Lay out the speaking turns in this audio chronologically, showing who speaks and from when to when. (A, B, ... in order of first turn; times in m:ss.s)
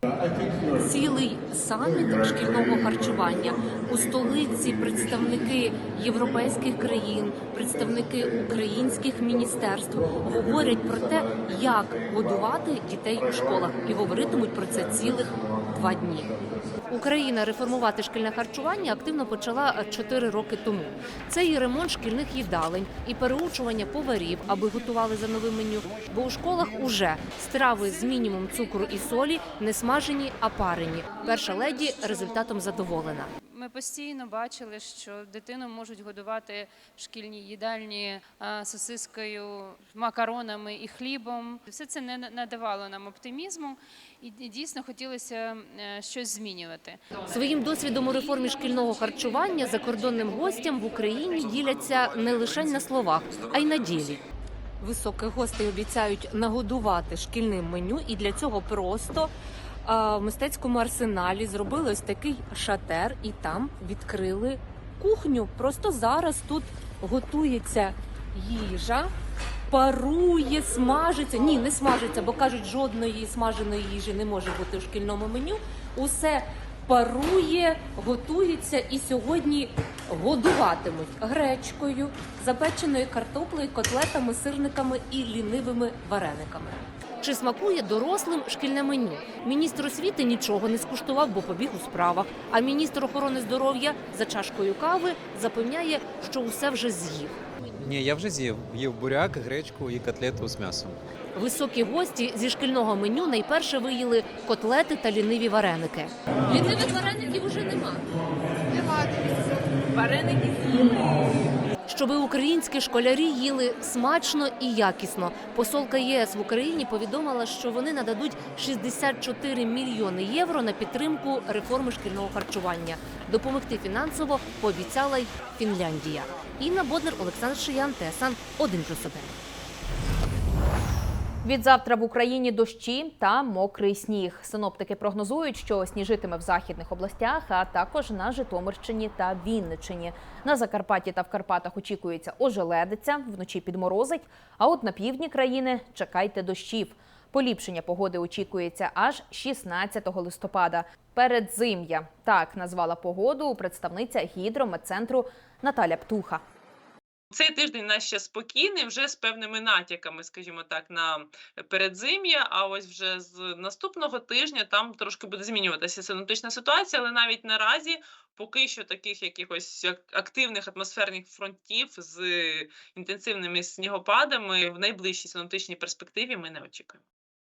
0:00.8-0:33.3 A
0:33.4-0:47.3 B
0:47.3-0:54.2 A
0:54.8-0:59.3 A
0:59.8-1:09.1 A
1:09.7-1:37.4 A
1:37.8-1:41.0 C
1:41.3-1:48.0 A
1:50.0-1:50.9 A
1:51.9-2:09.3 A
2:11.4-2:36.4 D
2:37.3-2:57.0 E